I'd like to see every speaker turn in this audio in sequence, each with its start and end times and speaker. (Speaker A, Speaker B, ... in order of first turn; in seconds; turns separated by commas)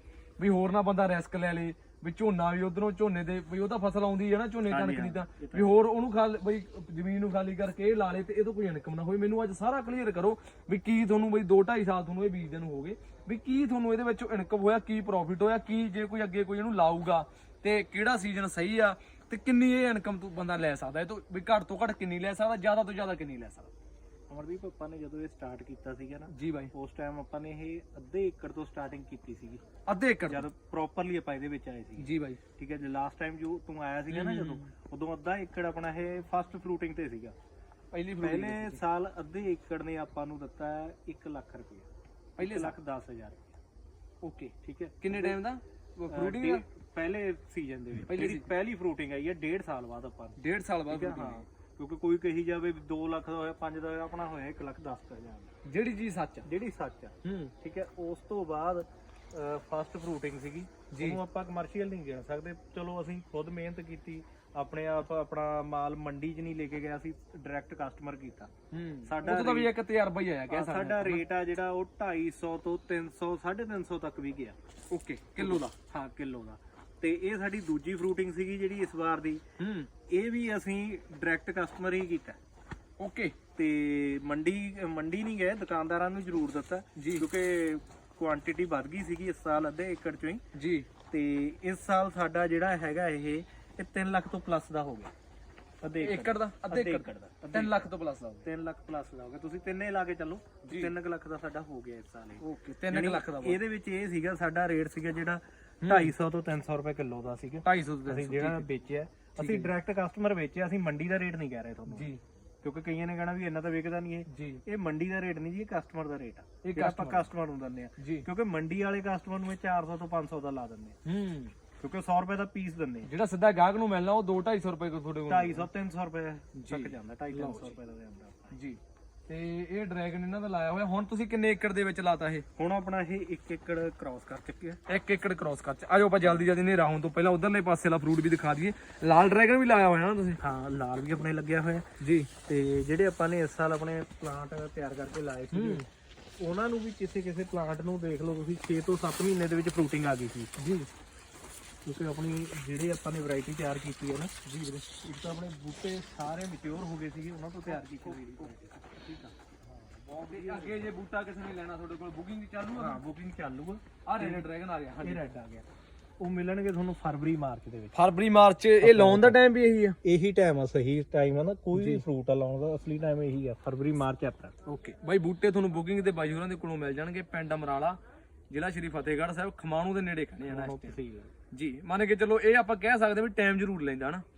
Speaker A: 0.4-23.7, Speaker B: 4.7-5.8, Speaker B: 24.3-29.6, Speaker A: 26.3-26.7, Speaker A: 29.9-30.5, Speaker B: 30.2-37.3, Speaker A: 32.0-32.4, Speaker A: 34.1-34.7, Speaker A: 37.9-38.8, Speaker B: 38.2-43.6, Speaker A: 42.4-42.8, Speaker A: 44.2-46.6, Speaker B: 44.6-45.4, Speaker B: 46.1-55.5, Speaker A: 48.1-48.5, Speaker A: 50.4-51.4, Speaker A: 55.6-56.5, Speaker B: 56.4-68.5, Speaker A: 57.2-57.5, Speaker A: 60.9-61.2, Speaker A: 68.7-71.2, Speaker B: 69.0-69.7, Speaker B: 70.5-74.6, Speaker A: 74.9-75.6, Speaker B: 75.4-79.4, Speaker A: 79.6-79.9, Speaker B: 80.1-82.4, Speaker A: 83.0-83.3, Speaker B: 83.5-90.4, Speaker A: 87.0-87.2, Speaker A: 90.5-90.9, Speaker B: 91.1-95.1, Speaker B: 95.8-97.9, Speaker A: 96.0-98.5, Speaker B: 98.4-112.1, Speaker A: 100.6-100.9, Speaker A: 102.4-103.6, Speaker A: 105.8-106.1, Speaker A: 107.6-108.7, Speaker A: 109.4-109.7, Speaker A: 111.9-112.2, Speaker B: 112.6-121.0, Speaker A: 114.3-114.6, Speaker A: 116.6-117.3, Speaker A: 118.0-118.2, Speaker A: 121.0-121.5, Speaker B: 121.8-123.1, Speaker A: 123.0-125.7, Speaker B: 125.3-128.5, Speaker A: 126.6-127.7, Speaker A: 128.5-132.4, Speaker B: 132.6-134.8, Speaker A: 134.9-140.4, Speaker B: 136.2-136.5, Speaker B: 140.4-141.9, Speaker A: 142.0-142.3, Speaker B: 142.4-145.8, Speaker A: 145.5-145.8, Speaker B: 146.4-150.5, Speaker A: 150.6-150.9, Speaker B: 151.8-154.3, Speaker A: 154.4-154.8, Speaker B: 155.0-160.9, Speaker A: 157.7-158.5, Speaker A: 160.3-163.0, Speaker B: 162.7-164.5, Speaker A: 164.1-165.2, Speaker B: 165.0-165.7, Speaker B: 166.2-167.9, Speaker A: 167.9-170.0, Speaker B: 168.8-169.4, Speaker B: 170.0-174.5, Speaker A: 171.7-172.0, Speaker A: 174.7-178.0, Speaker A: 178.5-180.9, Speaker B: 180.5-181.3, Speaker A: 181.5-184.2